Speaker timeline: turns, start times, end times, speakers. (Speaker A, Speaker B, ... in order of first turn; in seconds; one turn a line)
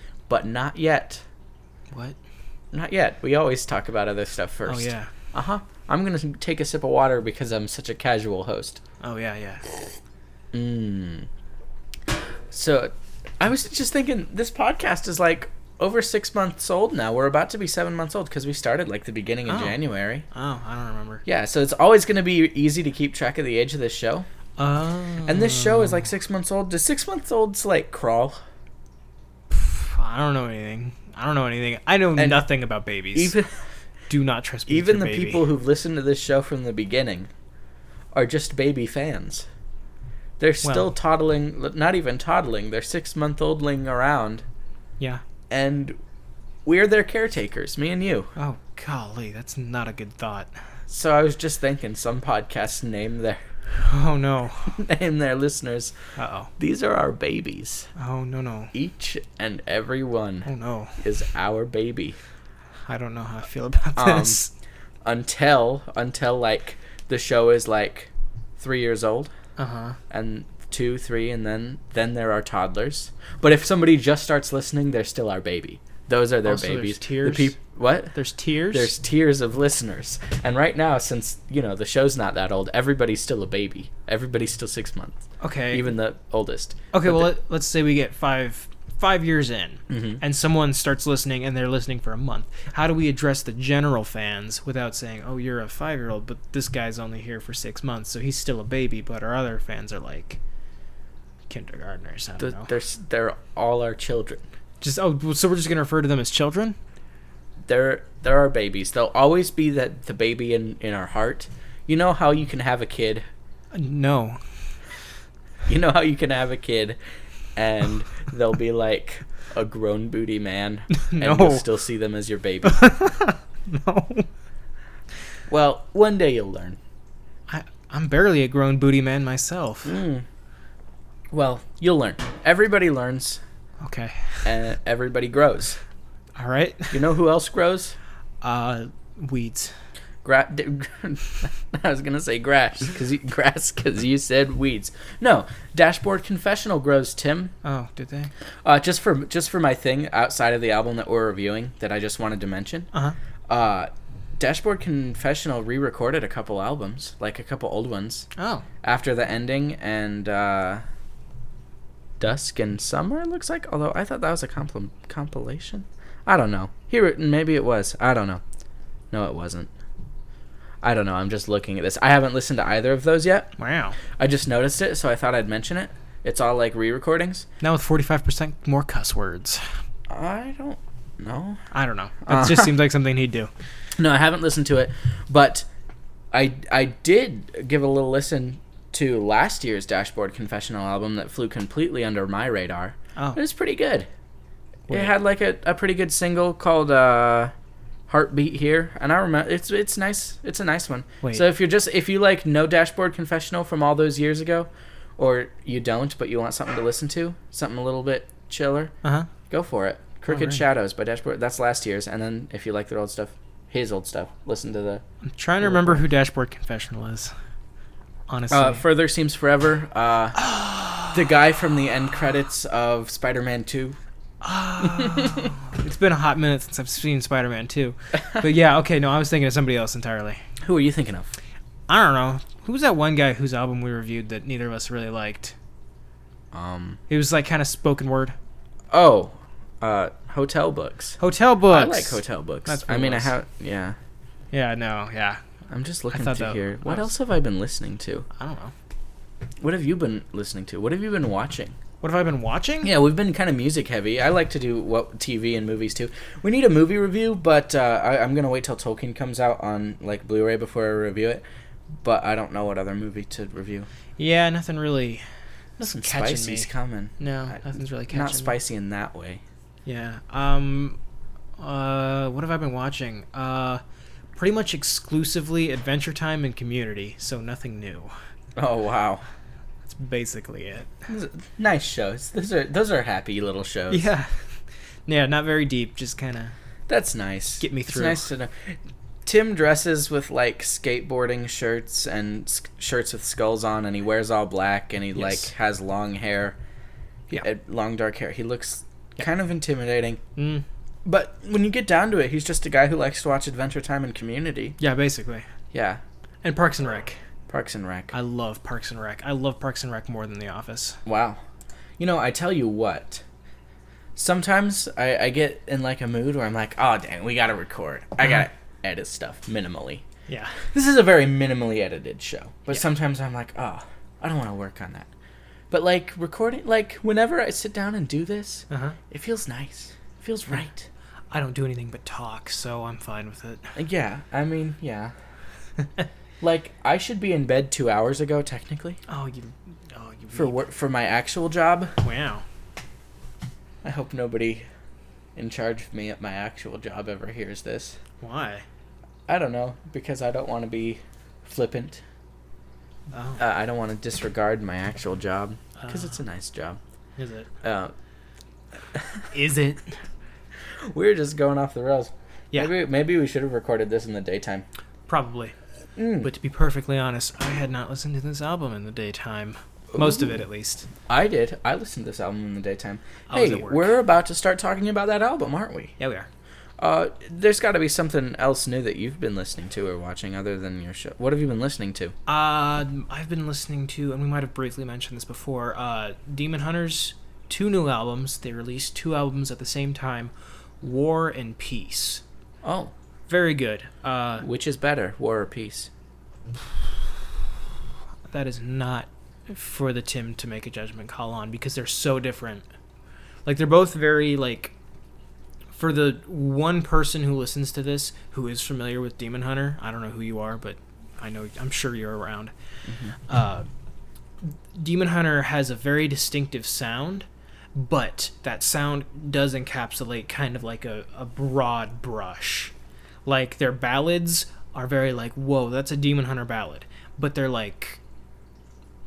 Speaker A: 0.3-1.2
Speaker B: 1.9-2.2
Speaker A: 2.7-8.8
Speaker B: 4.7-5.1
Speaker B: 9.0-9.7
Speaker A: 10.5-11.3
Speaker A: 12.5-20.2
Speaker B: 19.5-19.8
Speaker B: 20.3-21.2
Speaker A: 21.2-24.3
Speaker B: 24.6-26.0
Speaker A: 25.2-28.4
Speaker B: 29.5-33.4
Speaker A: 32.1-32.5
Speaker A: 33.1-33.6
Speaker B: 34.1-35.5
Speaker A: 34.7-37.3
Speaker A: 38.1-39.5
Speaker A: 40.4-44.4
Speaker B: 40.6-40.9
Speaker A: 45.5-46.0
Speaker A: 46.6-48.3
Speaker B: 48.4-50.6
Speaker A: 50.9-53.5
Speaker B: 53.8-54.8
Speaker A: 54.7-55.9
Speaker B: 56.2-56.5
Speaker A: 56.6-57.9
Speaker B: 57.9-58.7
Speaker A: 58.7-62.2
Speaker B: 60.4-61.0
Speaker B: 62.9-64.5
Speaker A: 64.0-64.4
Speaker A: 65.0-69.3
Speaker B: 69.6-70.0
Speaker A: 70.1-78.2
Speaker B: 76.4-77.5
Speaker B: 78.1-78.9
Speaker A: 78.7-87.3
Speaker B: 85.4-85.9
Speaker B: 86.9-100.4
Speaker A: 89.9-90.2
Speaker B: 101.5-102.7
Speaker A: 102.4-104.4
Speaker B: 104.8-106.8
Speaker A: 107.6-113.2
Speaker B: 113.7-114.4
Speaker A: 115.7-117.0
Speaker A: 117.5-122.9
Speaker B: 120.9-121.6
Speaker B: 122.6-124.3
Speaker A: 125.5-126.8
Speaker B: 127.5-130.0
Speaker A: 129.8-130.2
Speaker A: 131.3-133.4
Speaker B: 133.8-134.5
Speaker A: 134.4-135.8
Speaker B: 136.3-137.0
Speaker A: 136.9-138.0
Speaker B: 138.4-139.7
Speaker A: 140.2-147.5
Speaker B: 147.6-148.3
Speaker A: 148.6-152.9
Speaker A: 153.5-158.3
Speaker B: 158.4-158.7
Speaker A: 158.8-160.8
Speaker A: 162.2-168.4
Speaker A: 169.1-169.7
Speaker A: 170.8-173.5
Speaker B: 173.6-174.0
Speaker A: 174.2-177.5
Speaker B: 177.6-179.7
Speaker A: 180.1-181.6
Speaker B: 181.7-183.5
Speaker A: 182.2-182.7
Speaker A: 184.0-185.7
Speaker A: 186.3-194.1
Speaker A: 194.9-197.5
Speaker A: 198.1-208.9
Speaker B: 209.0-209.3
Speaker A: 209.5-215.0
Speaker B: 210.3-210.6
Speaker B: 215.2-217.3
Speaker A: 215.6-216.0
Speaker B: 218.3-218.8
Speaker A: 218.5-220.4
Speaker B: 220.4-221.2
Speaker A: 221.1-224.0
Speaker B: 224.4-230.4
Speaker A: 224.8-225.5
Speaker A: 228.2-228.4
Speaker A: 230.6-231.3
Speaker B: 231.9-235.5
Speaker A: 236.5-237.0
Speaker B: 237.1-238.3
Speaker A: 238.9-241.2
Speaker B: 241.2-243.3
Speaker A: 241.7-244.0
Speaker B: 244.5-245.4
Speaker A: 245.7-248.2
Speaker B: 246.1-247.1
Speaker B: 248.3-248.7
Speaker A: 249.6-251.8
Speaker B: 252.0-252.9
Speaker A: 252.8-261.4
Speaker A: 262.0-263.9
Speaker B: 264.2-265.2
Speaker A: 265.8-269.4
Speaker B: 265.8-268.6
Speaker B: 269.9-271.0
Speaker B: 271.6-273.8
Speaker B: 274.4-278.1
Speaker A: 278.6-279.2
Speaker B: 279.8-280.9
Speaker A: 281.1-284.1
Speaker B: 283.9-284.5
Speaker B: 285.1-286.5
Speaker A: 286.9-296.6
Speaker B: 287.6-288.3
Speaker B: 295.1-295.5
Speaker A: 297.4-300.2
Speaker B: 300.4-300.6
Speaker A: 301.0-304.8
Speaker B: 304.8-305.5
Speaker A: 305.7-306.0
Speaker B: 306.4-307.2
Speaker A: 307.5-308.1
Speaker B: 308.1-311.0
Speaker A: 311.0-311.4
Speaker A: 312.0-313.2
Speaker A: 314.1-320.0
Speaker B: 320.3-320.6
Speaker A: 320.6-325.1
Speaker A: 325.7-330.9
Speaker B: 328.7-329.0
Speaker B: 331.3-333.8
Speaker A: 333.8-335.1
Speaker A: 336.4-339.0
Speaker B: 339.1-340.6
Speaker A: 340.3-341.9
Speaker B: 342.0-342.4
Speaker A: 343.8-344.6
Speaker A: 345.4-348.0
Speaker B: 348.2-348.6
Speaker A: 349.3-352.0
Speaker B: 353.1-353.4
Speaker A: 353.4-356.8
Speaker B: 355.8-356.2
Speaker B: 357.2-357.5
Speaker A: 357.6-357.9
Speaker A: 358.9-359.3
Speaker B: 359.3-360.0
Speaker A: 360.8-364.6
Speaker B: 365.1-365.6
Speaker A: 366.0-366.3
Speaker B: 366.2-370.9
Speaker A: 369.9-370.4
Speaker A: 371.1-375.9
Speaker B: 373.3-373.9
Speaker B: 376.0-376.3
Speaker A: 376.8-382.1
Speaker B: 382.3-392.2
Speaker A: 392.6-392.9
Speaker B: 393.3-394.5
Speaker A: 394.4-395.9
Speaker B: 398.3-402.6
Speaker B: 403.4-404.7
Speaker B: 405.7-412.5
Speaker A: 412.9-413.1
Speaker B: 413.3-413.7
Speaker B: 414.4-422.7
Speaker B: 423.2-428.0